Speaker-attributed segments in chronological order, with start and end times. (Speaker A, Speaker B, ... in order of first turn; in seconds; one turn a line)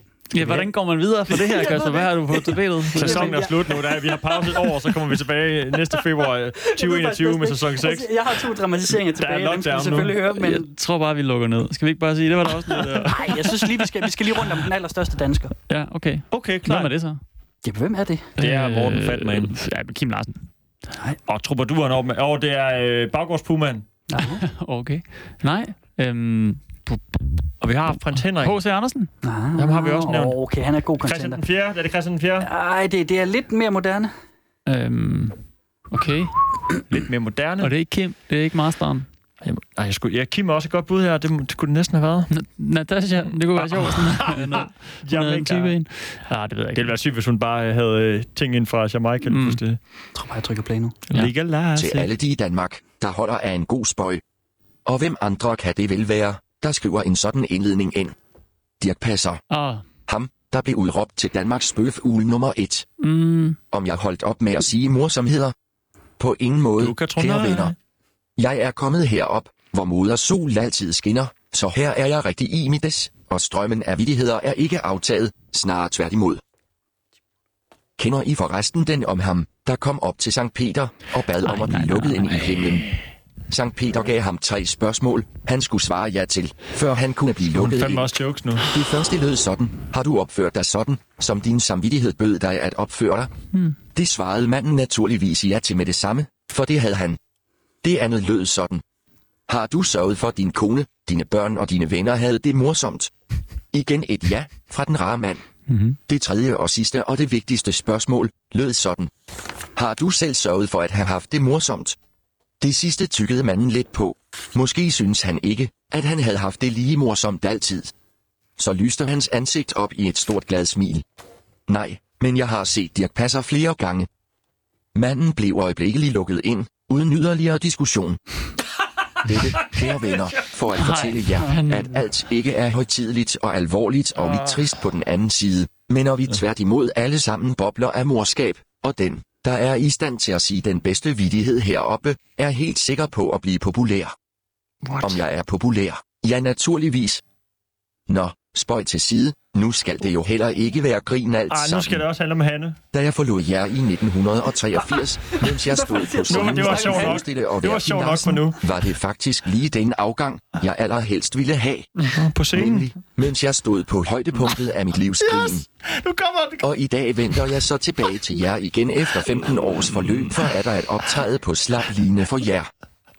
Speaker A: 0.3-3.4
Speaker B: 0.4-0.7
Speaker B: 1.3-4.8
Speaker C: 3.0-8.4
Speaker B: 6.7-10.7
Speaker C: 9.1-10.2
Speaker A: 10.3-13.7
Speaker C: 12.7-13.2
Speaker B: 13.1-15.5
Speaker A: 15.7-17.2
Speaker C: 16.3-16.9
Speaker B: 17.6-18.3
Speaker A: 18.4-20.4
Speaker C: 18.4-19.6
Speaker C: 21.3-23.9
Speaker B: 24.1-24.4
Speaker A: 24.2-27.2
Speaker C: 27.6-28.6
Speaker A: 28.2-29.1
Speaker B: 29.2-31.4
Speaker C: 29.6-30.4
Speaker C: 31.0-32.5
Speaker B: 32.4-34.1
Speaker A: 34.7-35.4
Speaker A: 35.9-36.3
Speaker C: 36.9-37.7
Speaker A: 37.6-39.1
Speaker C: 39.4-42.3
Speaker A: 42.3-46.9
Speaker C: 43.5-45.8
Speaker C: 46.8-49.8
Speaker A: 49.3-49.6
Speaker B: 50.1-51.0
Speaker C: 51.1-52.1
Speaker D: 51.8-54.2
Speaker D: 54.9-58.2
Speaker D: 58.8-59.4
Speaker A: 59.5-59.8
Speaker D: 60.1-62.9
Speaker A: 63.0-63.6
Speaker D: 63.7-65.5
Speaker D: 66.2-67.7
Speaker C: 66.8-67.8
Speaker D: 68.4-76.4
Speaker D: 78.0-82.9
Speaker A: 81.4-82.6
Speaker D: 83.5-88.1
Speaker C: 87.5-88.7
Speaker D: 88.7-93.3
Speaker D: 94.0-97.2
Speaker D: 97.8-98.8
Speaker D: 99.5-103.1
Speaker D: 103.7-105.4
Speaker A: 105.7-106.0
Speaker D: 106.1-109.1
Speaker D: 109.8-112.0
Speaker D: 112.6-117.9
Speaker D: 118.6-121.0
Speaker D: 121.7-124.1
Speaker D: 125.0-128.2
Speaker D: 129.2-144.2
Speaker A: 130.8-132.0
Speaker D: 145.0-147.2
Speaker D: 148.1-152.1
Speaker C: 151.5-152.8
Speaker D: 152.9-165.7
Speaker B: 155.6-157.2
Speaker C: 156.3-158.8
Speaker C: 162.1-162.9
Speaker C: 165.2-166.7
Speaker D: 166.6-172.7
Speaker C: 170.0-170.3